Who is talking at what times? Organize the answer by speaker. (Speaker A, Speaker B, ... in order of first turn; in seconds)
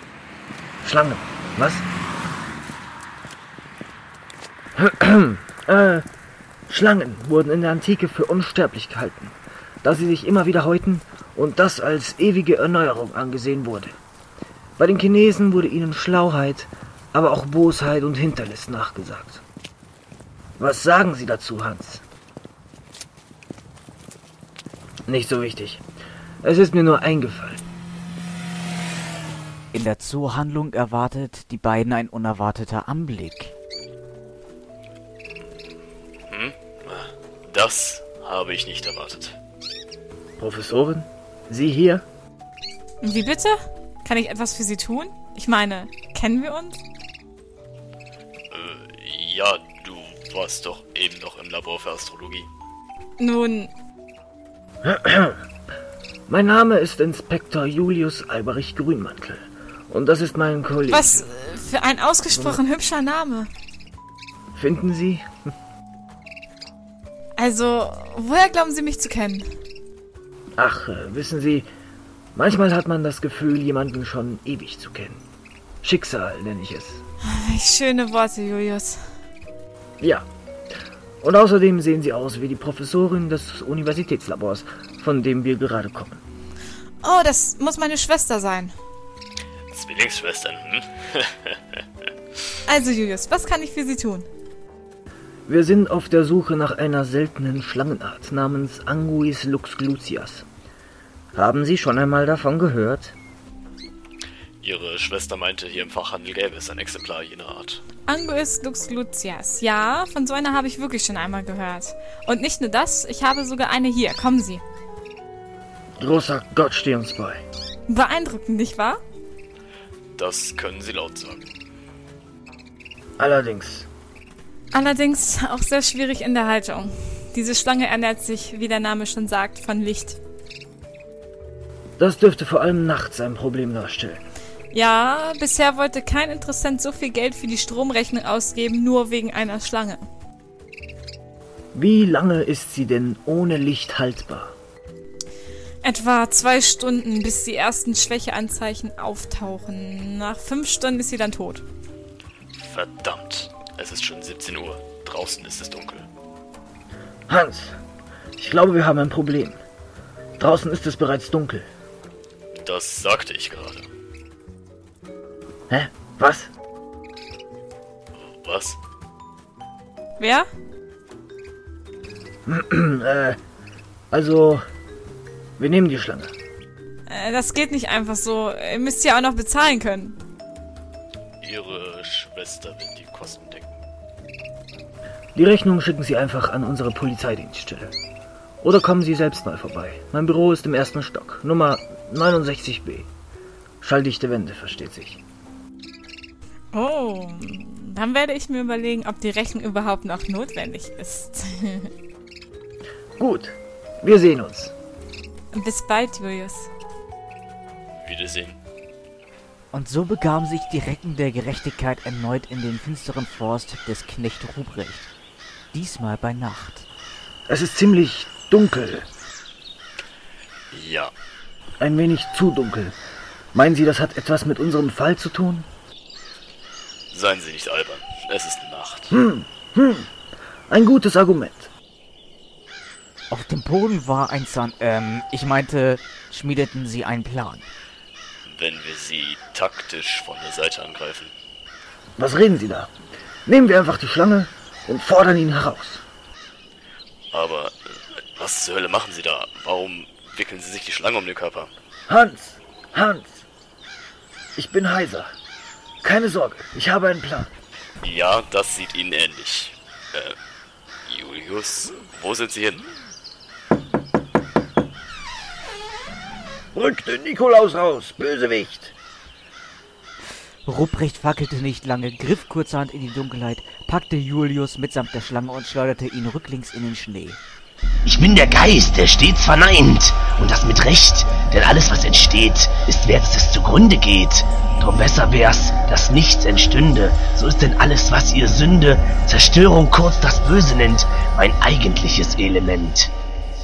Speaker A: 0.8-1.9, 4.8-6.1, 6.7-14.0, 14.8-19.4, 20.6-22.0, 25.1-25.8, 26.4-27.6, 40.4-42.0, 54.8-55.4, 56.3-61.3, 62.3-62.6, 64.5-65.2, 70.6-71.7, 72.3-75.2, 75.8-77.0, 80.0-80.3, 81.2-86.2, 95.5-100.5, 101.3-103.2, 116.0-117.4, 123.2-123.9, 132.0-134.2, 141.7-144.6, 157.3-157.8, 158.4-159.6, 160.4-161.7, 165.7-166.5, 172.5-173.4, 174.1-174.6, 175.6-176.3, 185.3-187.9, 188.6-193.1, 193.8-195.2, 203.2-204.7, 217.5-219.1, 221.8-223.0, 223.5-225.7, 229.1-230.1, 230.7-231.7, 242.2-242.9, 243.5-246.0, 252.1-253.4, 254.6-255.3, 256.0-257.5, 266.7-268.9
Speaker B: 29.7-33.5, 209.7-215.1, 215.7-216.9, 233.3-237.7, 270.6-277.4
Speaker C: 36.3-39.4, 48.5-52.5, 89.7-91.8, 104.6-107.8, 120.2-121.5, 152.5-156.1, 162.6-163.9, 168.2-168.8, 181.4-183.8, 208.0-208.6, 220.7-221.1, 227.1-229.2, 238.4-241.3, 247.3-251.7, 258.0-260.4, 261.1-262.9
Speaker D: 43.0-46.8, 53.2-53.7, 60.9-63.5, 67.4-69.5, 77.2-79.0, 87.0-88.7, 92.7-94.3, 108.1-114.6, 117.9-119.0, 124.7-130.2, 134.7-140.0, 145.8-151.6, 170.2-170.5, 177.1-180.2, 196.7-201.9, 205.5-206.7
Speaker E: 278.1-293.1